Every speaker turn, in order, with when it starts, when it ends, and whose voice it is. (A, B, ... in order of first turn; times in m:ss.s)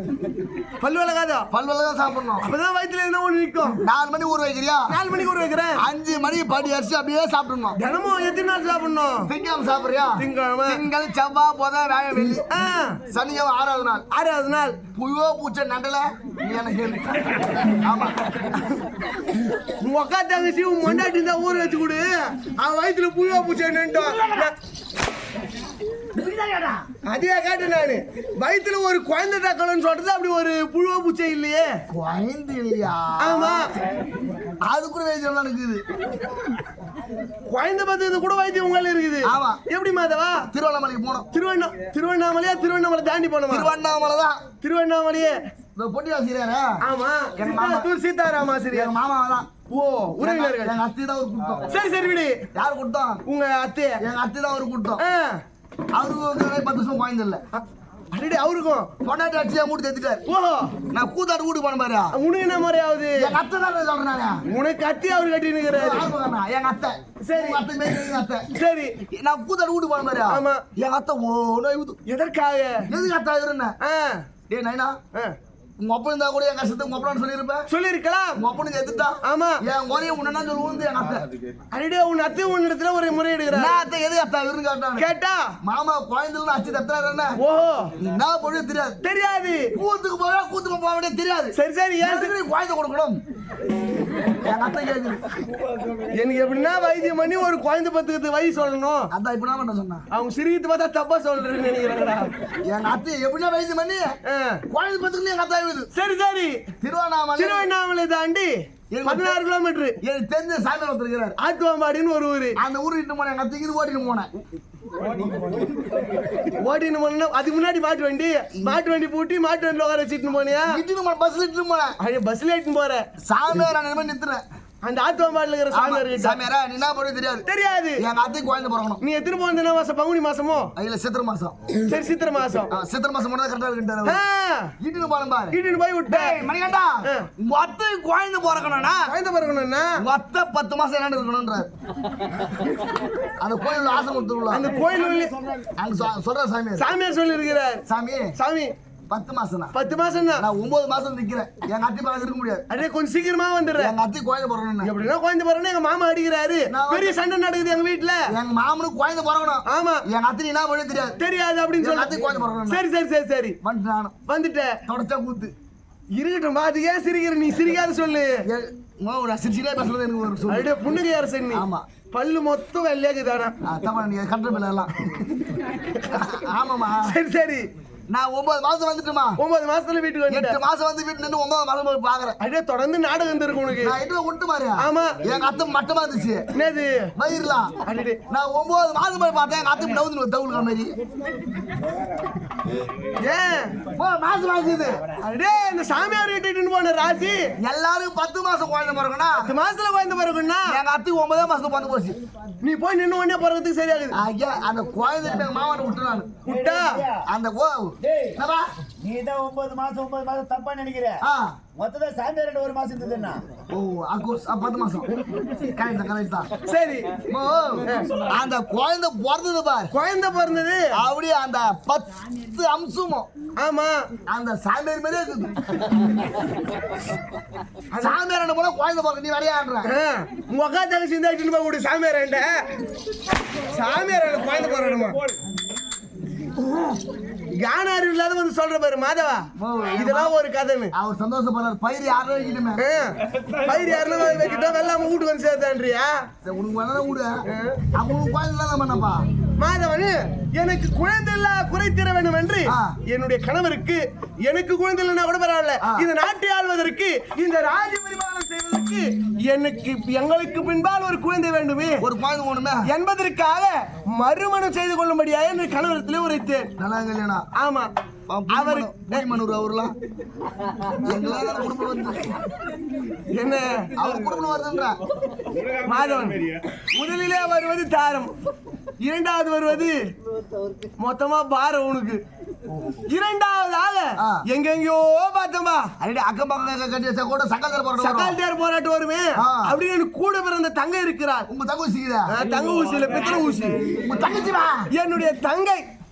0:00.8-0:01.5 A
0:01.5-0:02.5 B
0:02.4-0:03.8 A
0:03.7-0:05.0 B
0:04.9-0:05.8 A
0:05.8-0:07.8 B
0:07.8-0:09.3 A
0:09.2-0:12.5 B
0:10.2-0:10.8 A
0:12.3-0:13.0 A
0:13.1-0:14.0 B
0:14.1-0:14.8 A
0:14.9-0:18.2 B
0:19.8-0:24.5 A
0:23.9-0:24.5 B
0:26.1-0:26.8 B
0:27.0-0:31.7 A
0:31.9-0:33.7 B
0:33.2-0:33.7 A
0:34.6-0:35.8 B
0:37.5-0:40.5 A
0:39.2-0:39.6 B
0:40.4-0:41.3 B
0:41.3-0:43.7 A
0:43.5-0:44.4 B
0:44.6-0:45.4 A
0:45.8-0:46.8 B
0:46.8-0:48.9 A
0:47.4-0:47.9 B
0:48.7-0:49.5 B
0:49.7-0:50.7 A
0:50.2-0:51.7 B
0:51.7-0:52.4 A
0:52.5-0:53.2 B
0:53.3-0:54.0 A
0:54.0-0:55.0 B
0:55.0-0:55.4 A
0:55.9-0:57.4 B
0:57.5-0:58.9 A
0:59.0-1:00.2 B
1:00.3-1:00.7 A
1:00.9-1:02.1 B
1:02.1-1:03.4 A
1:03.2-1:04.4 B
1:04.5-1:06.1 A
1:05.7-1:08.5 B
1:07.2-1:07.6 A
1:08.5-1:08.9 A
1:09.1-1:12.0 B
1:10.3-1:10.6 A
1:12.1-1:12.9 A
1:12.9-1:13.7 B
1:13.8-1:14.2 A
1:14.5-1:15.0 B
1:15.8-1:17.7 B
1:17.7-1:18.4 A
1:18.4-1:21.3 B
1:19.2-1:19.6 A
1:21.7-1:23.8 A
1:23.5-1:25.1 B
1:25.0-1:25.5 A
1:25.6-1:27.4 B
1:27.4-1:27.9 A
1:28.0-1:29.0 B
1:29.0-1:29.7 A
1:29.7-1:33.2 B
1:31.5-1:32.4 A
1:34.4-1:35.2 B
1:36.1-1:39.1 A
1:39.1-1:40.0 B
1:40.1-1:42.3 A
1:42.7-1:44.2 B
1:44.3-1:44.6 A
1:44.7-1:45.9 B
1:45.9-1:46.6 A
1:46.8-1:47.7 B
1:47.4-1:50.0 A
1:48.9-1:49.4 B
1:50.0-1:51.4 B
1:51.4-1:52.6 A
1:52.6-1:54.3 B
1:56.5-2:00.8 A
2:00.7-2:02.0 B
2:02.0-2:03.0 A
2:03.2-2:04.4 B
2:04.8-2:06.4 A
2:05.7-2:07.4 B
2:07.5-2:08.0 A
2:08.0-2:09.0 B
2:09.0-2:10.7 A
2:10.8-2:11.6 B
2:11.8-2:12.7 A
2:12.7-2:14.2 B
2:14.0-2:14.7 A
2:14.8-2:19.1 B
2:15.5-2:16.4 A
2:19.1-2:20.0 A
2:20.0-2:21.7 B
2:23.4-2:24.7 B
2:24.5-2:25.3 A
2:25.8-2:26.9 B
2:26.8-2:27.8 A
2:27.9-2:28.3 B
2:28.4-2:28.7 A
2:29.1-2:29.7 B
2:29.7-2:30.4 A
2:30.4-2:32.6 B
2:32.7-2:33.9 A
2:33.8-2:34.9 B
2:34.8-2:38.3 A
2:36.7-2:37.1 B
2:38.3-2:41.2 B
2:39.6-2:40.0 A
2:41.2-2:42.1 A
2:41.8-2:42.8 B
2:42.7-2:43.6 A
2:43.6-2:44.1 B
2:44.3-2:44.8 A
2:44.9-2:45.5 B
2:46.2-2:48.4 A
2:48.4-2:50.7 B
2:50.5-2:53.5 A
2:51.5-2:51.8 B
2:53.6-2:55.4 B
2:55.9-2:56.2 A
2:56.1-2:57.1 B
2:57.0-2:57.7 A
2:58.1-2:59.4 B
2:59.4-3:00.6 A
3:00.3-3:02.4 B
3:02.4-3:04.0 A
3:03.8-3:06.4 B
3:04.8-3:05.2 A
3:06.5-3:07.1 A
3:07.2-3:07.8 B
3:07.8-3:08.2 A
3:08.3-3:10.9 B
3:13.2-3:13.8 A
3:13.9-3:15.0 B
3:15.2-3:17.5 A
3:17.6-3:19.5 B
3:19.4-3:20.8 A
3:20.7-3:22.2 B
3:22.6-3:24.2 A
3:24.1-3:26.4 B
3:26.4-3:27.0 A
3:26.5-3:27.2 C
3:27.2-3:28.7 B
3:29.0-3:31.2 C
3:31.2-3:31.6 B
3:31.8-3:33.4 C
3:33.7-3:36.5 B
3:36.6-3:37.2 A
3:37.3-3:39.9 B
3:37.8-3:38.1 A
3:39.9-3:40.9 A
3:40.9-3:43.3 B
3:43.6-3:44.0 A
3:44.3-3:45.7 B
3:47.9-3:49.9 B
3:49.8-3:52.6 A
3:53.7-3:55.2 A
3:57.6-4:00.9 A
3:59.6-4:00.3 B
4:00.9-4:02.8 B
4:02.8-4:06.2 A
4:06.4-4:07.4 B
4:07.5-4:07.8 A
4:07.9-4:09.2 B
4:09.6-4:22.0 A
4:12.6-4:13.0 B
4:15.8-4:16.1 B
4:22.0-4:22.9 B
4:22.8-4:26.7 A
4:26.8-4:27.5 B
4:27.6-4:27.9 A
4:28.3-4:29.9 B
4:28.5-4:29.3 A
4:31.0-4:32.4 B
4:33.3-4:33.9 A
4:33.9-4:35.0 B
4:35.7-4:38.3 A
4:39.0-4:40.0 A
4:41.0-4:42.2 A
4:43.1-4:45.9 A
4:44.2-4:44.4 B
4:46.0-4:48.4 B
4:48.0-4:51.5 A
4:49.4-4:49.8 B
4:51.5-4:52.4 B
4:52.3-4:53.8 A
4:54.0-4:54.9 B
4:54.9-4:55.8 A